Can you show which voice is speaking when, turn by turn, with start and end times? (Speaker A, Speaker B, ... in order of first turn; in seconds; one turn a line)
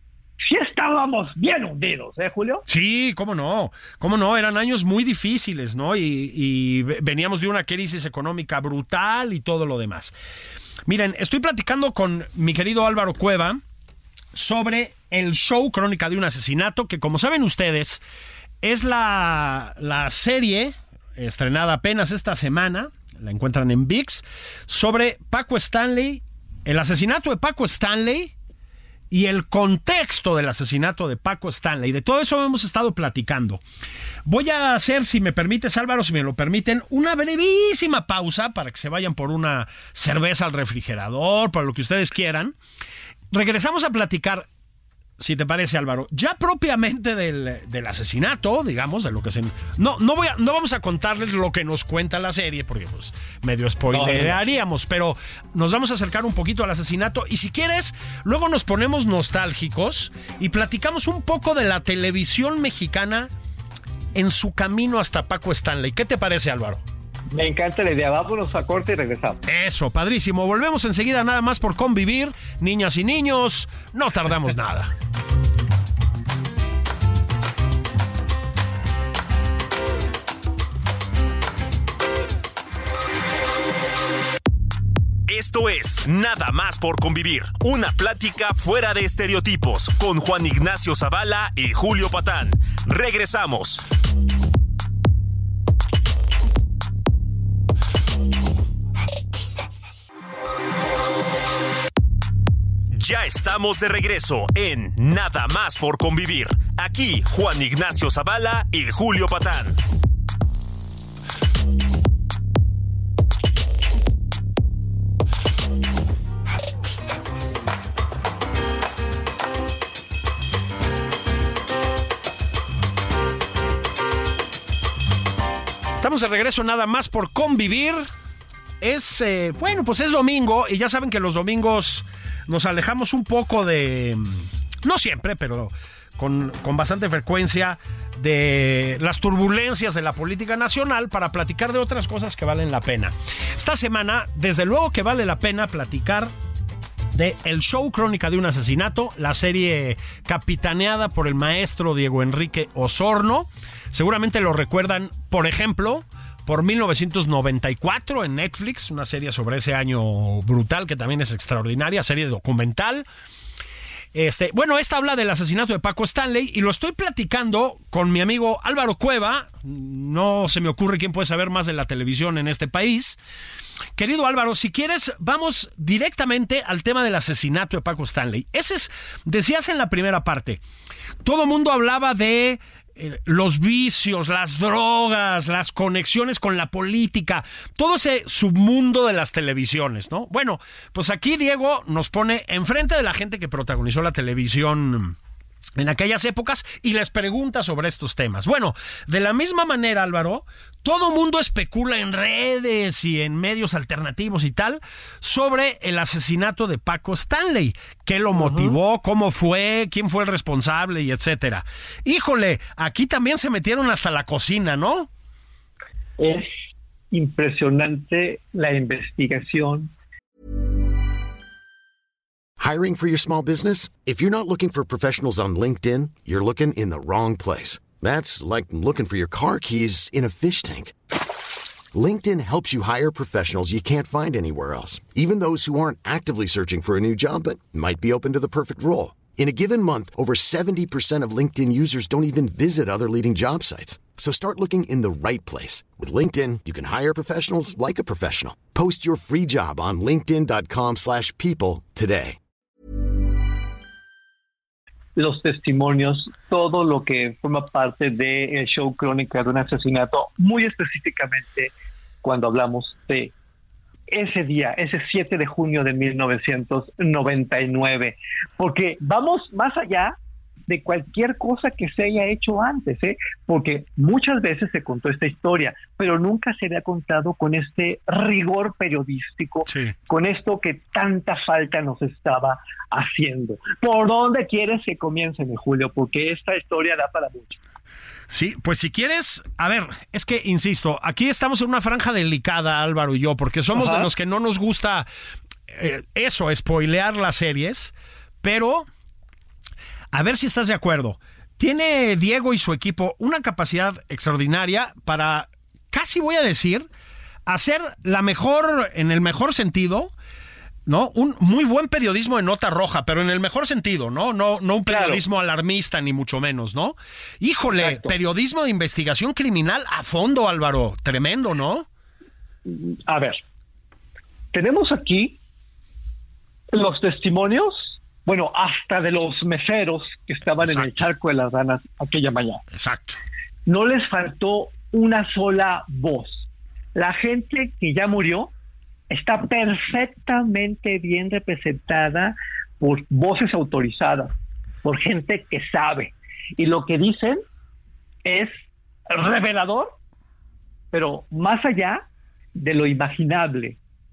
Speaker A: 0.4-2.6
Speaker B: 2.7-10.1
Speaker B: 10.9-13.6
Speaker B: 14.3-18.0
Speaker B: 18.6-28.3
Speaker B: 29.1-33.6
Speaker B: 34.2-42.6
Speaker B: 43.3-44.5
Speaker B: 45.2-63.3
Speaker A: 53.9-54.4
Speaker B: 64.1-66.8
Speaker A: 67.3-69.4
Speaker B: 69.4-74.9
Speaker C: 85.3-93.8
Speaker C: 102.9-109.8
Speaker B: 126.0-128.1
Speaker B: 128.8-146.3
Speaker B: 147.1-163.1
Speaker B: 164.1-173.2
Speaker B: 173.9-180.6
Speaker B: 181.2-195.2
Speaker B: 195.8-215.1
Speaker A: 208.4-208.7
Speaker A: 216.2-216.5
Speaker A: 217.1-219.9
Speaker D: 222.6-230.9
Speaker D: 231.9-252.4
Speaker A: 255.2-261.7
Speaker A: 262.2-263.3
Speaker A: 264.1-270.2
Speaker A: 270.7-287.6
Speaker B: 279.7-279.9
Speaker B: 288.3-295.1
Speaker A: 293.7-294.1
Speaker B: 295.7-298.9
Speaker B: 300.1-306.9
Speaker B: 307.5-310.1
Speaker B: 310.9-321.9
Speaker A: 314.9-315.2
Speaker A: 317.7-318.1
Speaker A: 322.6-323.4
Speaker A: 324.5-325.4
Speaker A: 326.7-332.6
Speaker B: 330.6-331.0
Speaker B: 332.7-333.2
Speaker A: 333.6-338.5
Speaker A: 339.1-344.3
Speaker A: 344.8-347.4
Speaker A: 348.2-349.9
Speaker A: 350.9-352.0
Speaker A: 352.6-353.8